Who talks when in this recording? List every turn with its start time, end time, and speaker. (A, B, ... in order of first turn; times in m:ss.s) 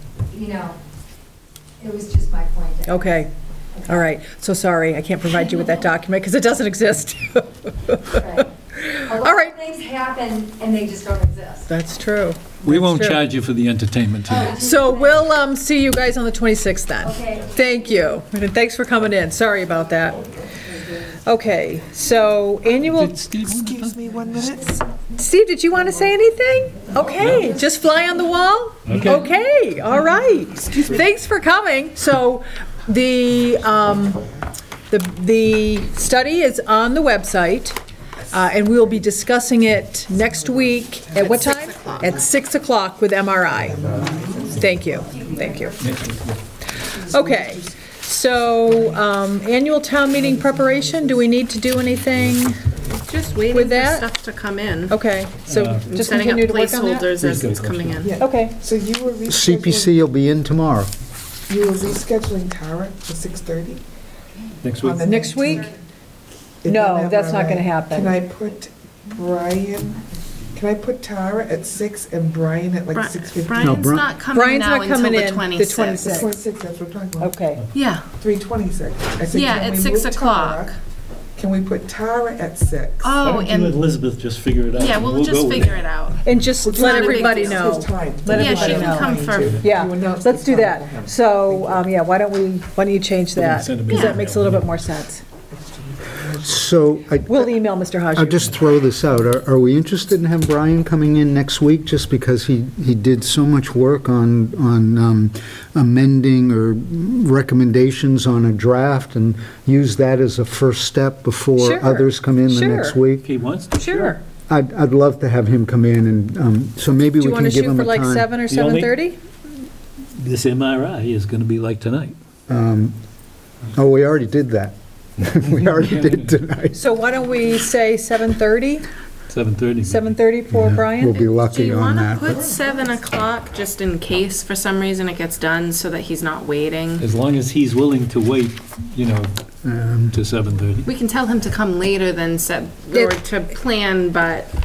0:00.3-0:00.8 A
0:01.8-0:03.2 A
0:02.8-0:03.3 B
0:03.8-0:09.6 B
0:08.1-0:08.5 A
0:09.0-0:11.7 A
0:11.7-0:13.2 B
0:12.6-0:14.5 C
0:14.3-0:15.2 A
0:14.4-0:20.3 B
0:17.0-0:17.9 A
0:20.9-0:23.2 B
0:22.8-0:24.0 C
0:23.6-0:24.8 D
0:25.1-0:34.2 B
0:27.2-0:27.5 C
0:28.9-0:29.3 C
0:34.9-0:37.8 B
0:38.3-0:43.8 B
0:40.4-0:41.4 D
0:41.2-0:42.1 E
0:43.6-0:45.4 D
0:44.4-0:45.8 B
0:45.8-0:46.4 C
0:46.8-0:52.6 B
0:46.9-0:47.7 D
0:48.7-0:48.9 D
0:50.1-0:51.2 D
0:52.7-0:53.1 D
0:53.1-0:55.0 E
0:53.5-0:54.1 B
0:54.9-0:57.1 B
0:55.5-0:55.9 C
0:55.8-0:58.1 E
0:57.2-0:58.1 C
0:58.0-1:00.0 D
0:58.2-0:58.6 B
0:59.3-1:00.9 F
1:01.5-1:03.8 D
1:04.6-1:05.0 C
1:04.8-1:05.7 D
1:05.0-1:05.7 B
1:06.6-1:14.0 D
1:06.6-1:08.2 B
1:12.9-1:16.2 E
1:13.6-1:14.1 F
1:14.3-1:16.3 B
1:16.0-1:17.3 D
1:17.2-1:17.6 B
1:17.7-1:18.1 E
1:18.1-1:20.7 D
1:19.3-1:20.7 E
1:21.4-1:23.3 D
1:23.0-1:23.8 E
1:23.2-1:25.8 C
1:24.7-1:29.6 E
1:26.2-1:35.2 B
1:26.6-1:31.8 D
1:33.3-1:34.7 C
1:33.9-1:34.2 E
1:35.5-1:36.6 D
1:36.4-1:37.5 F
1:37.3-1:38.5 B
1:38.1-1:53.2 F
1:51.6-1:53.0 B
1:53.2-1:53.7 C
1:53.7-1:54.2 B
1:54.5-1:58.3 F
1:57.2-1:59.2 B
1:58.4-1:59.0 C
2:00.2-2:02.2 C
2:02.5-2:02.9 F
2:03.7-2:06.8 F
2:05.8-2:06.4 C
2:06.7-2:08.8 B
2:09.3-2:10.1 C
2:09.8-2:11.2 B
2:10.5-2:12.4 F
2:11.1-2:17.0 E
2:12.3-2:12.9 D
2:17.0-2:19.3 C
2:19.6-2:20.2 F
2:20.1-2:20.9 C
2:20.8-2:24.5 E